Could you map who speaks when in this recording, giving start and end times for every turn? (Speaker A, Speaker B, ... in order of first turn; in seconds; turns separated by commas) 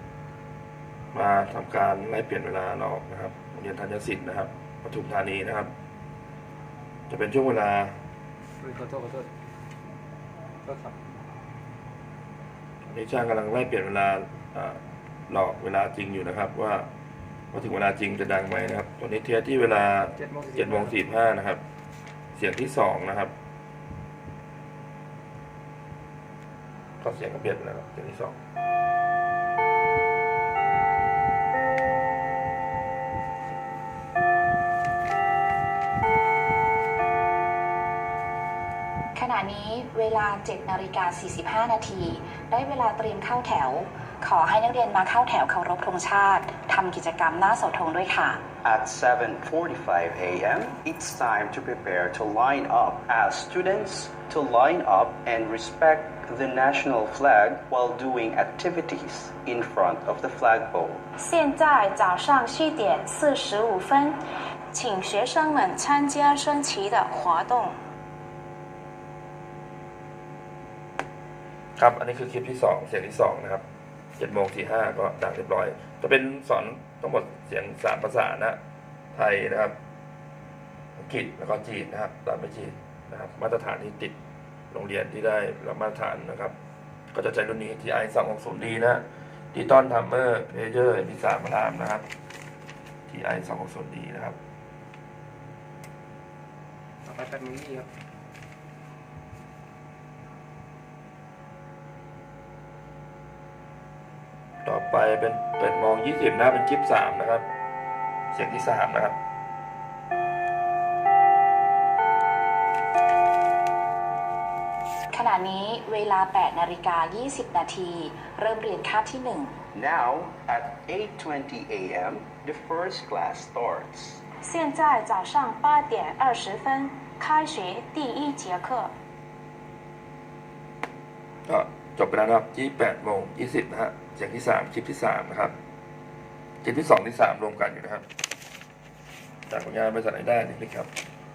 Speaker A: 1.1-5.7, Speaker A: 7.1-8.0, Speaker B: 8.6-9.3, Speaker B: 10.6-10.9, Speaker A: 12.8-16.9, Speaker A: 17.5-21.6, Speaker B: 20.2-21.0, Speaker A: 22.3-23.3, Speaker A: 27.0-28.3, Speaker C: 39.1-48.4, Speaker D: 48.6-61.0, Speaker E: 61.2-64.2, Speaker E: 64.7-67.8, Speaker A: 71.8-73.6, Speaker A: 74.2-78.6, Speaker A: 79.1-79.7, Speaker A: 81.0-84.1, Speaker A: 84.7-86.5, Speaker A: 87.1-92.0, Speaker A: 93.1-94.4, Speaker B: 97.0-97.9, Speaker A: 104.6-107.4, Speaker A: 108.3-109.1, Speaker C: 115.1-119.5, Speaker D: 119.7-124.2, Speaker E: 124.4-128.9, Speaker A: 131.5-135.5, Speaker A: 136.6-138.0, Speaker A: 139.5-140.9